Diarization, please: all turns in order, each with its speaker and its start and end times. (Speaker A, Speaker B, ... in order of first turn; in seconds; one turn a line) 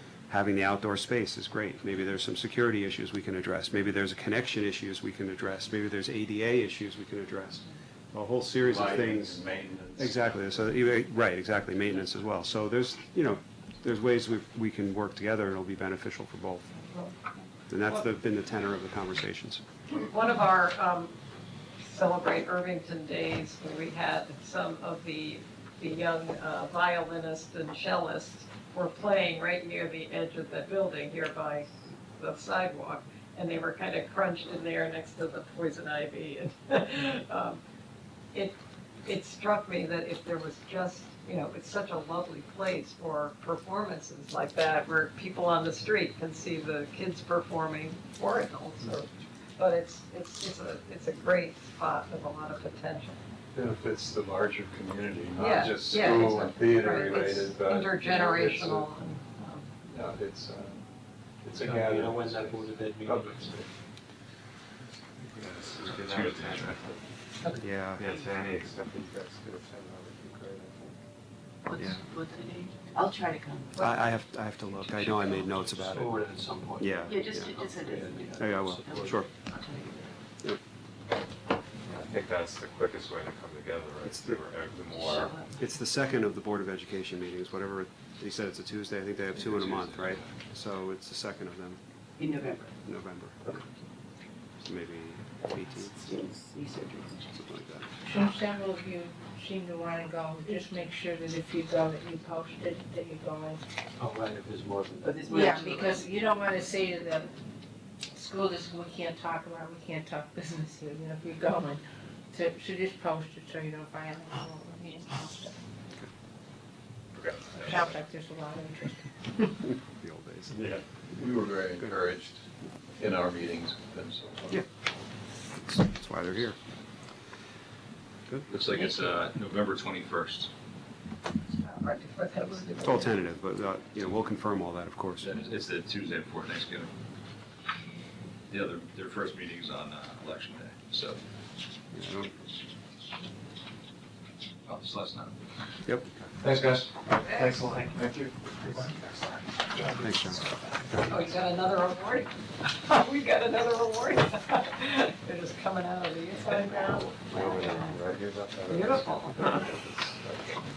Speaker A: 0.3-9.4
Speaker B: 8.6-10.2
Speaker A: 9.9-16.6
Speaker C: 16.9-17.3
Speaker A: 17.7-19.6
Speaker C: 19.9-21.1
Speaker C: 21.8-37.6
Speaker C: 38.3-53.2
Speaker B: 53.5-58.9
Speaker C: 55.4-59.7
Speaker B: 59.9-60.8
Speaker B: 61.4-63.6
Speaker D: 61.5-63.6
Speaker E: 65.2-67.0
Speaker F: 65.8-66.8
Speaker A: 67.6-68.2
Speaker E: 68.0-70.9
Speaker G: 71.7-73.7
Speaker A: 71.7-72.0
Speaker A: 73.8-76.2
Speaker D: 74.8-79.3
Speaker A: 76.8-77.5
Speaker G: 77.1-80.1
Speaker A: 78.3-79.3
Speaker E: 81.9-85.4
Speaker A: 84.0-84.4
Speaker G: 84.9-85.5
Speaker A: 85.6-91.8
Speaker G: 92.2-92.7
Speaker A: 92.8-93.6
Speaker A: 94.6-96.3
Speaker G: 96.0-97.3
Speaker A: 97.2-97.9
Speaker H: 98.0-103.6
Speaker D: 104.0-105.5
Speaker G: 105.0-106.1
Speaker H: 105.2-107.3
Speaker H: 108.1-115.5
Speaker F: 117.2-117.9
Speaker H: 117.5-119.5
Speaker A: 119.6-120.7
Speaker B: 120.6-122.4
Speaker B: 123.0-124.6
Speaker A: 125.6-126.6
Speaker F: 128.5-130.5
Speaker C: 131.4-133.1
Speaker A: 132.8-135.3
Speaker F: 135.2-136.9
Speaker F: 138.5-141.2
Speaker A: 141.9-142.3
Speaker F: 144.7-145.3
Speaker F: 146.4-147.1
Speaker C: 147.2-147.9
Speaker F: 147.8-148.8
Speaker A: 149.8-150.4
Speaker C: 151.1-158.1
Speaker E: 157.2-160.5
Speaker C: 158.7-159.6